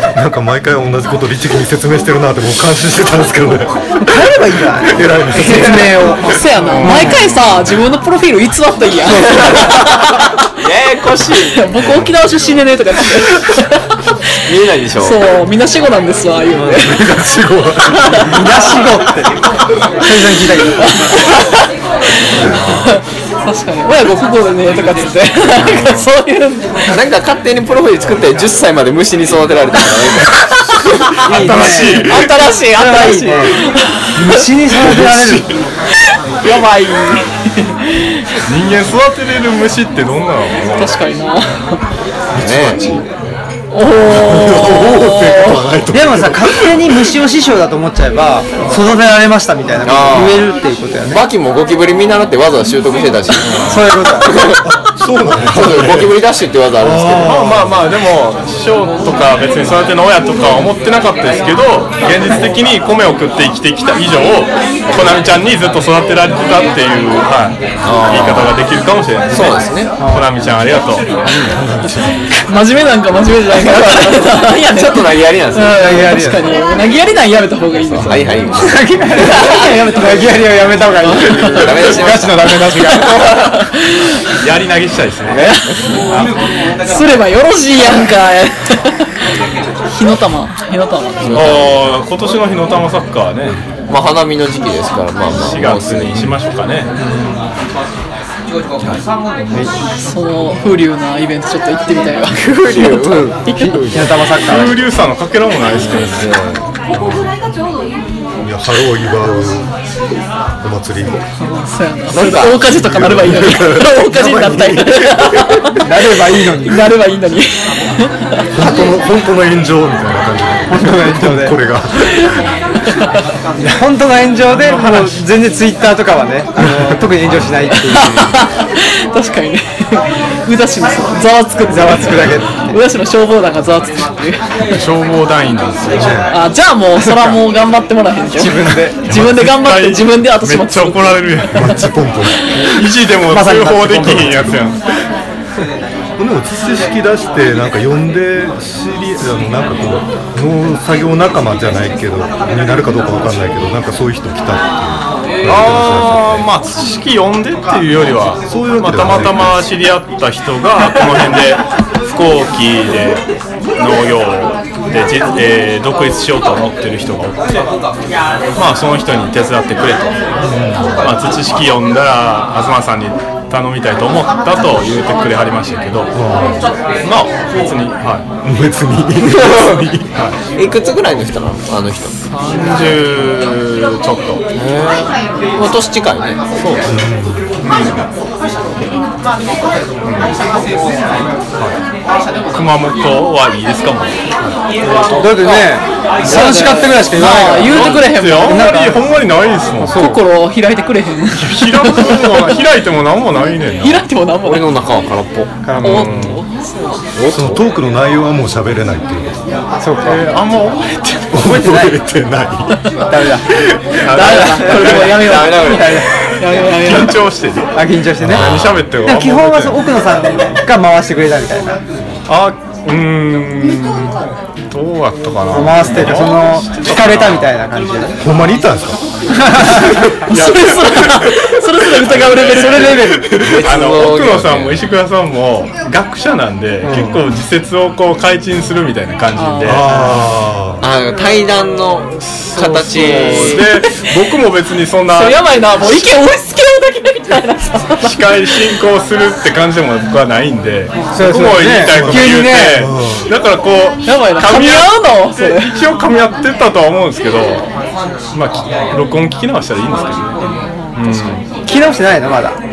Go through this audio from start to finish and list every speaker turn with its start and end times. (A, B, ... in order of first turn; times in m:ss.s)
0:00.1-0:04.3 A
0:04.0-0:07.2 B
0:04.9-0:06.0 A
0:06.2-0:10.3 C
0:06.6-0:07.4 D
0:09.1-0:09.8 B
0:09.3-0:09.9 E
0:10.6-0:12.1 E
0:11.5-0:13.8 C
0:14.5-0:15.2 E
0:15.0-0:17.1 C
0:16.8-0:18.4 A
0:18.0-0:18.4 C
0:18.2-0:19.3 B
0:20.0-0:21.0 B
0:20.9-0:21.5 C
0:22.6-0:26.7 C
0:25.6-0:26.1 D
0:26.9-0:30.4 E
0:31.2-0:33.6 B
0:31.3-0:32.3 D
0:31.5-0:34.4 C
0:34.2-0:35.5 B
0:34.7-0:35.5 D
0:36.4-0:38.3 C
0:38.5-0:41.0 D
0:40.8-0:41.8 C
0:42.4-0:43.0 A
0:42.4-0:42.9 E
0:43.7-0:45.6 C
0:44.0-0:47.0 A
0:45.9-0:51.2 B
0:49.8-0:50.5 E
0:51.0-0:53.7 E
0:53.6-0:54.4 B
0:54.2-0:54.6 E
0:54.6-0:56.1 A
0:55.4-0:57.3 E
0:56.8-0:57.8 A
0:57.2-1:11.1 D
1:07.8-1:08.5 E
1:09.3-1:09.9 E
1:10.0-1:10.3 B
1:11.3-1:11.6 B
1:11.5-1:12.2 A
1:12.5-1:18.6 C
1:13.8-1:15.8 E
1:15.8-1:16.4 B
1:18.0-1:18.8 E
1:18.1-1:18.4 A
1:18.6-1:23.5 B
1:19.3-1:20.2 C
1:21.1-1:21.7 C
1:21.3-1:22.5 E
1:23.1-1:24.2 C
1:24.4-1:25.6 D
1:25.3-1:25.6 E
1:25.4-1:29.1 C
1:29.9-1:31.6 C
1:31.2-1:31.8 E
1:31.3-1:33.6 D
1:33.9-1:36.2 E
1:35.4-1:36.9 D
1:37.0-1:37.4 B
1:40.0-1:43.9 C
1:42.4-1:43.5 E
1:43.6-1:44.8 B
1:44.4-1:46.4 D
1:45.7-1:46.7 E
1:46.9-1:47.3 A
1:48.4-1:49.7 A
1:50.6-1:51.2 A
1:51.4-1:58.4 C
1:52.1-1:52.6 E
1:52.6-1:55.7 A
1:55.8-1:56.9 B
1:58.5-2:02.5 A
2:00.7-2:01.6 B
2:02.8-2:03.2 C
2:03.6-2:08.3 B
2:04.5-2:05.2 D
2:07.9-2:14.4 C
2:11.7-2:12.8 B
2:14.7-2:16.2 D
2:15.9-2:16.3 A
2:16.3-2:21.5 C
2:17.0-2:17.4 B
2:18.4-2:19.1 B
2:19.0-2:21.9 D
2:21.5-2:22.4 A
2:22.6-2:24.9 D
2:23.3-2:24.5 B
2:26.2-2:36.5 A
2:35.4-2:43.2 D
2:38.5-2:39.7 A
2:43.8-2:47.5 D
2:48.6-2:50.1 D
2:50.4-2:51.0 A
2:51.0-2:56.1 D
2:56.1-2:56.7 A
2:57.0-2:58.3 D
2:58.4-3:00.1 A
2:59.4-2:59.8 E
3:00.6-3:02.2 E
3:02.2-3:04.4 D
3:04.6-3:06.4 E
3:06.6-3:06.9 D
3:06.9-3:07.5 A
3:07.6-3:08.1 D
3:10.0-3:10.4 D
3:12.5-3:14.2 D
3:15.0-3:19.1 B
3:16.2-3:18.7 C
3:17.7-3:20.1 D
3:19.8-3:20.2 B
3:19.9-3:22.4 C
3:21.3-3:24.1 D
3:23.8-3:24.7 C
3:24.4-3:25.5 E
3:25.6-3:26.1 B
3:25.8-3:26.4 D
3:25.8-3:27.0 C
3:27.2-3:27.6 E
3:27.3-3:29.4 A
3:29.8-3:30.2 B
3:30.0-3:31.5 D
3:31.3-3:32.8 A
3:31.4-3:32.0 B
3:33.1-3:33.5 B
3:34.0-3:35.2 D
3:34.1-3:37.2 C
3:34.1-3:36.1 B
3:34.7-3:36.0 E
3:36.7-3:39.8 D
3:37.7-3:41.8 B
3:38.2-3:38.8 A
3:42.3-3:44.2 D
3:44.7-3:47.5 D
3:45.5-3:48.1 B
3:48.2-3:49.0 A
3:49.5-3:50.0 B
3:50.3-3:53.2 C
3:50.3-3:51.3 D
3:52.0-4:00.1 D
3:52.6-3:53.3 B
3:53.4-3:54.8 E
3:56.8-3:57.2 B
3:59.4-4:00.0 C
3:59.6-4:00.8 A
4:00.8-4:03.6 E
4:02.3-4:06.0 D
4:03.2-4:03.8 C
4:05.1-4:08.7 C
4:08.0-4:17.7 D
4:11.1-4:12.9 B
4:11.9-4:13.3 A
4:14.0-4:15.8 C
4:18.3-4:20.4 D
4:20.4-4:21.0 C
4:20.9-4:21.5 D
4:21.7-4:22.6 B